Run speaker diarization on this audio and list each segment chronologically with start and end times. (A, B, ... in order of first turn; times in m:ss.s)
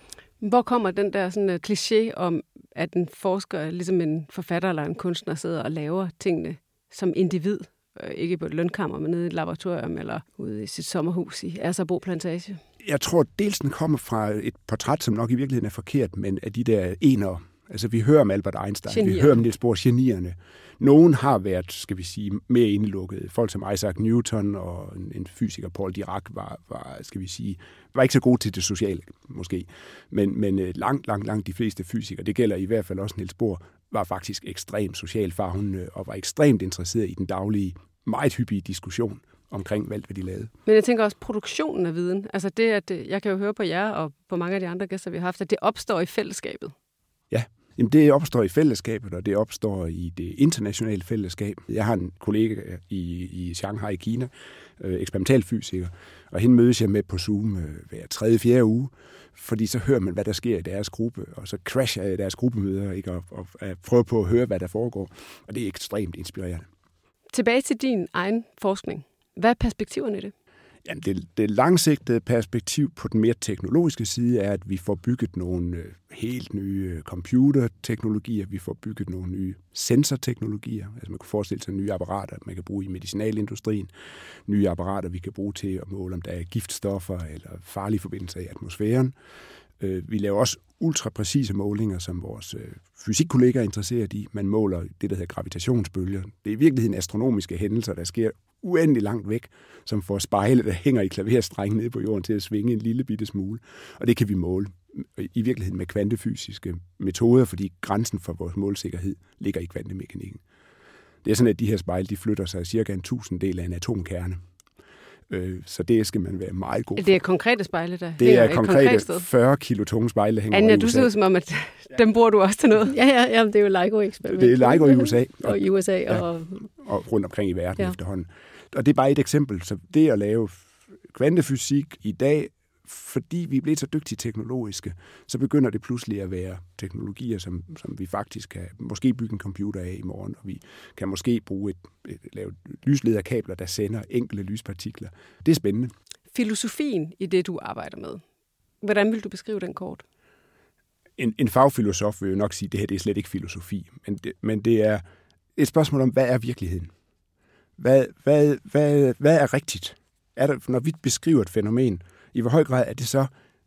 0:00.4-0:12.6 A
0:12.8-0:40.5 B
0:18.9-0:19.4 A
0:40.7-0:46.7 A
0:47.3-1:06.7 B
1:07.3-1:10.3 A
1:10.8-1:23.9 B
1:24.5-1:29.1 B
1:29.8-1:50.4 B
1:51.2-1:54.4 B
1:55.3-1:57.2 B
1:57.0-1:59.2 A
1:58.2-2:01.1 B
2:00.5-2:02.9 A
2:02.9-2:06.7 C
2:04.3-2:25.9 B
2:26.3-2:28.2 A
2:28.8-2:30.0 A
2:31.2-2:35.0 B
2:35.6-2:36.9 B
2:37.8-2:43.3 B